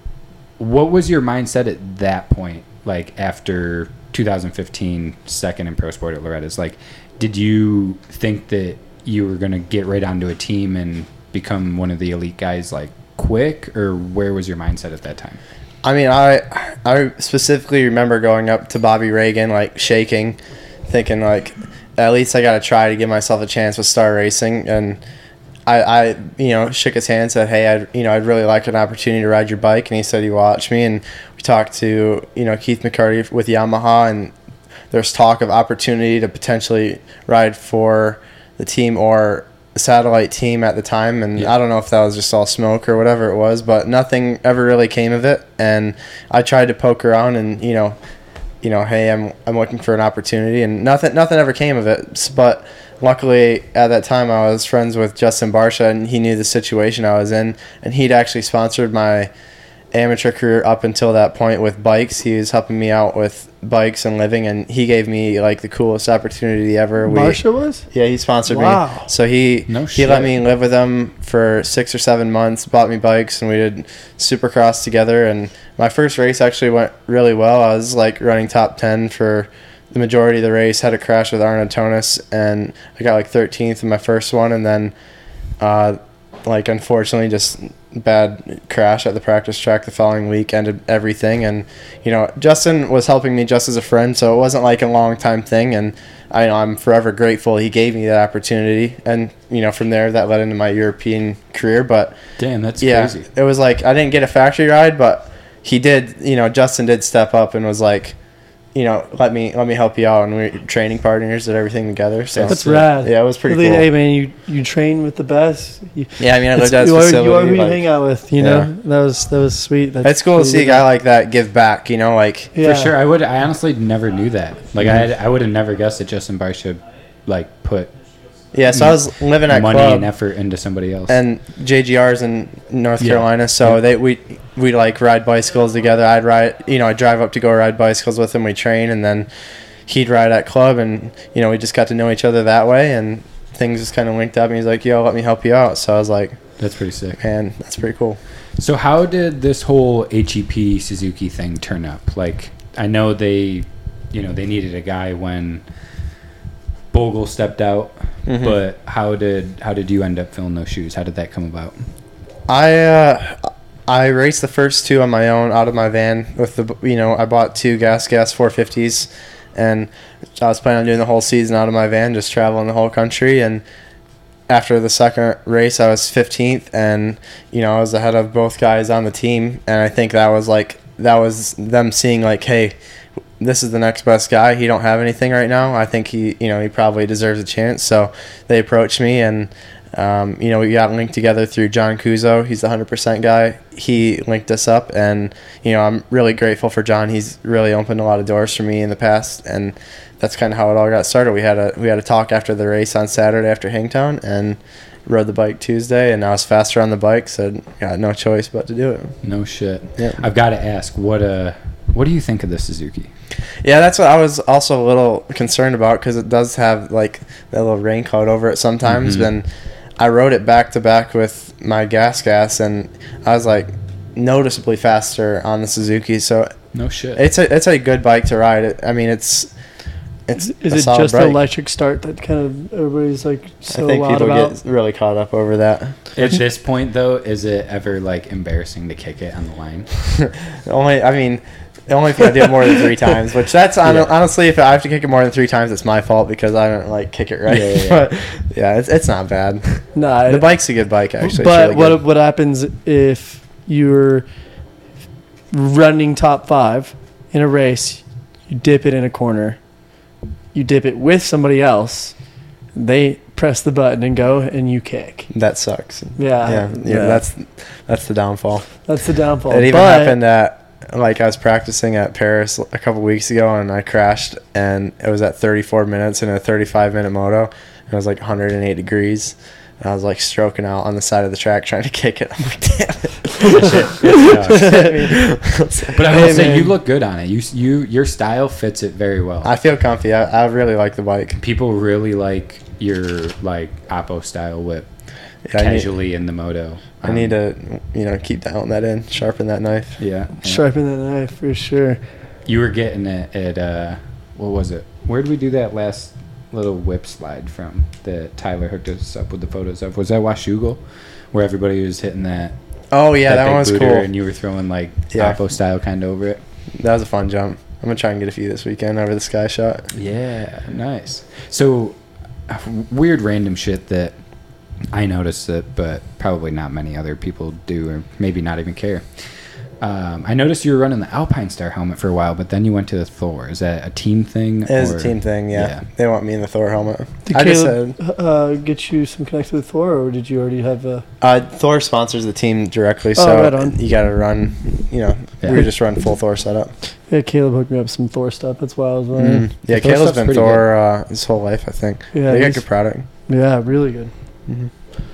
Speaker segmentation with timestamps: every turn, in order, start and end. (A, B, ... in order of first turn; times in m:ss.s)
0:00.6-0:15.4 A
0:15.8-0:25.0 B
0:25.7-0:34.3 B
0:34.9-0:48.0 B
0:48.6-0:59.3 B
0:59.9-1:07.4 B
1:07.0-1:07.8 C
1:07.9-1:24.9 B
1:08.5-1:09.1 C
1:09.7-1:10.3 A
1:25.6-1:42.2 B
1:42.4-1:43.3 A
1:42.8-1:48.2 B
1:48.8-1:53.9 B
1:52.3-1:52.9 A
1:52.5-2:00.8 C
1:56.2-1:58.7 B
2:00.0-2:02.6 B
2:02.6-2:02.9 C
2:02.6-2:07.9 A
2:08.5-2:10.1 B
2:08.7-2:11.2 A
2:11.1-2:19.3 B
2:13.0-2:13.8 A
2:19.9-2:26.4 B
2:26.6-2:27.2 A
2:27.2-2:28.2 B
2:28.6-2:35.6 A
2:36.9-2:41.8 A
2:38.3-2:38.6 B
2:42.5-2:53.6 B
2:54.5-3:02.8 B
3:03.4-3:29.2 B
3:29.2-3:33.1 A
3:33.6-3:46.5 B
3:38.9-3:39.3 A
3:46.7-3:47.2 A
3:47.2-3:49.5 B
3:50.3-3:51.4 B
3:50.4-3:54.6 C
3:53.7-3:56.0 B
3:56.2-3:59.9 A
4:00.2-4:09.7 B
4:07.5-4:08.1 A
4:09.9-4:10.5 C
4:10.3-4:12.0 B
4:11.2-4:14.3 C
4:15.5-4:19.6 C
4:20.5-4:22.1 C
4:22.8-4:25.3 C
4:25.3-4:28.7 B
4:26.2-4:27.2 C
4:28.9-4:30.2 C
4:29.5-4:46.6 B
4:43.4-4:45.2 A
4:45.8-4:49.5 A
4:46.1-4:46.7 C
4:49.4-4:51.4 B
4:51.4-4:54.9 A
4:55.5-4:55.9 B
4:55.6-4:57.3 A
4:57.0-5:00.0 B
5:00.0-5:00.6 A
5:00.4-5:02.0 C
5:02.5-5:10.8 A
5:11.3-5:12.6 A
5:12.9-5:14.1 B
5:13.3-5:16.4 A
5:15.1-5:15.4 B
5:16.8-5:19.9 B
5:19.9-5:24.2 A
5:24.9-5:29.2 A
5:29.8-5:35.8 A
5:34.7-5:38.0 B
5:37.3-5:41.0 C
5:41.2-5:46.7 B
5:43.2-5:43.8 C
5:47.1-5:49.5 C
5:49.2-5:53.1 B
5:49.7-5:50.7 A
5:52.1-5:52.6 C
5:53.3-5:54.1 C